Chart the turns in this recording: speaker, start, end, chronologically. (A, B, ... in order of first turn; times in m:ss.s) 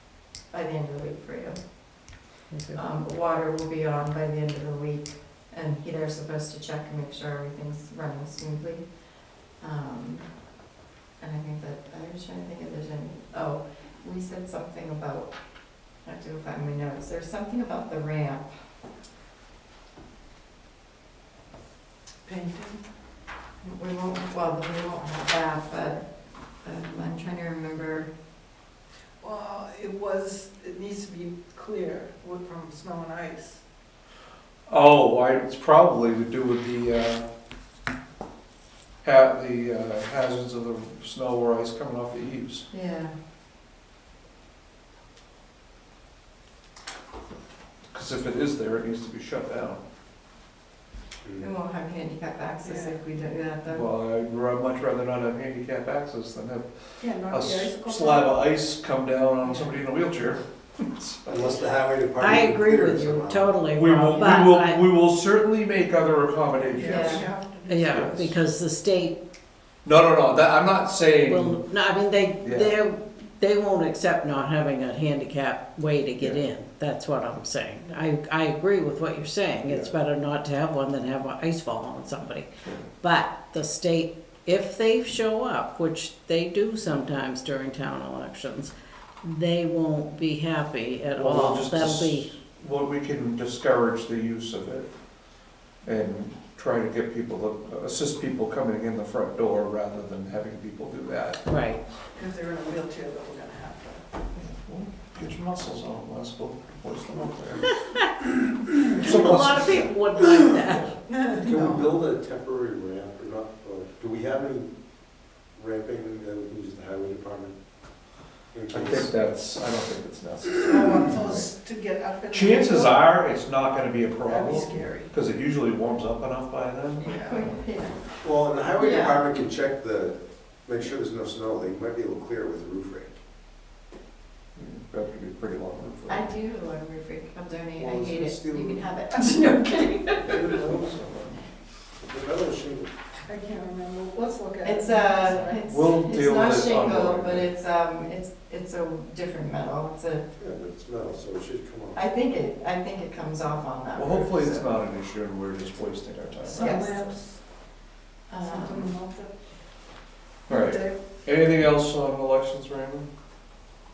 0:00.5-0:01.6 A
0:02.5-0:02.8 B
0:02.7-0:08.9 A
0:09.6-0:10.3 A
0:11.2-0:15.3 A
0:16.0-0:18.5 A
0:22.2-0:22.8 C
0:23.6-0:26.0 A
0:26.6-0:28.1 A
0:29.2-0:33.6 C
0:34.7-0:37.3 D
0:39.0-0:42.7 D
0:42.7-0:43.1 A
0:47.9-0:49.8 D
0:51.2-0:51.5 E
0:51.4-0:53.9 A
0:52.6-0:53.0 C
0:53.7-1:01.4 D
0:57.0-0:58.4 C
0:59.4-0:59.8 C
1:01.3-1:03.5 E
1:02.2-1:04.8 B
1:03.8-1:07.2 D
1:06.6-1:08.4 C
1:06.8-1:07.3 A
1:07.7-1:09.2 B
1:07.9-1:08.2 D
1:09.8-1:11.6 D
1:11.2-1:22.5 B
1:12.4-1:12.8 D
1:23.0-1:32.3 B
1:31.2-1:34.9 D
1:35.8-1:41.4 D
1:41.5-1:41.8 B
1:42.1-1:44.0 C
1:44.4-1:47.8 D
1:47.8-1:48.1 B
1:48.7-1:50.9 B
1:49.0-1:49.8 D
1:51.1-1:51.9 C
1:51.4-1:54.7 E
1:55.6-1:57.6 E
1:58.5-1:59.1 E
1:58.7-2:01.4 D
2:00.6-2:03.2 C
2:02.3-2:07.1 D
2:04.2-2:05.1 C
2:07.0-2:07.5 C
2:07.0-2:08.0 A
2:08.2-2:13.2 E
2:08.8-2:09.2 A
2:14.6-2:16.2 D
2:16.1-2:20.6 A
2:17.8-2:18.8 E
2:20.2-2:21.4 D
2:22.0-2:22.9 E
2:23.3-2:25.7 C
2:24.6-2:30.3 A
2:25.6-2:27.5 D
2:30.4-2:32.0 E
2:32.0-2:34.7 A
2:34.0-2:36.8 D
2:36.5-2:37.4 C
2:36.5-2:36.9 A
2:38.3-2:38.9 A
2:38.4-2:39.4 C
2:40.5-2:41.0 C
2:40.5-2:43.1 D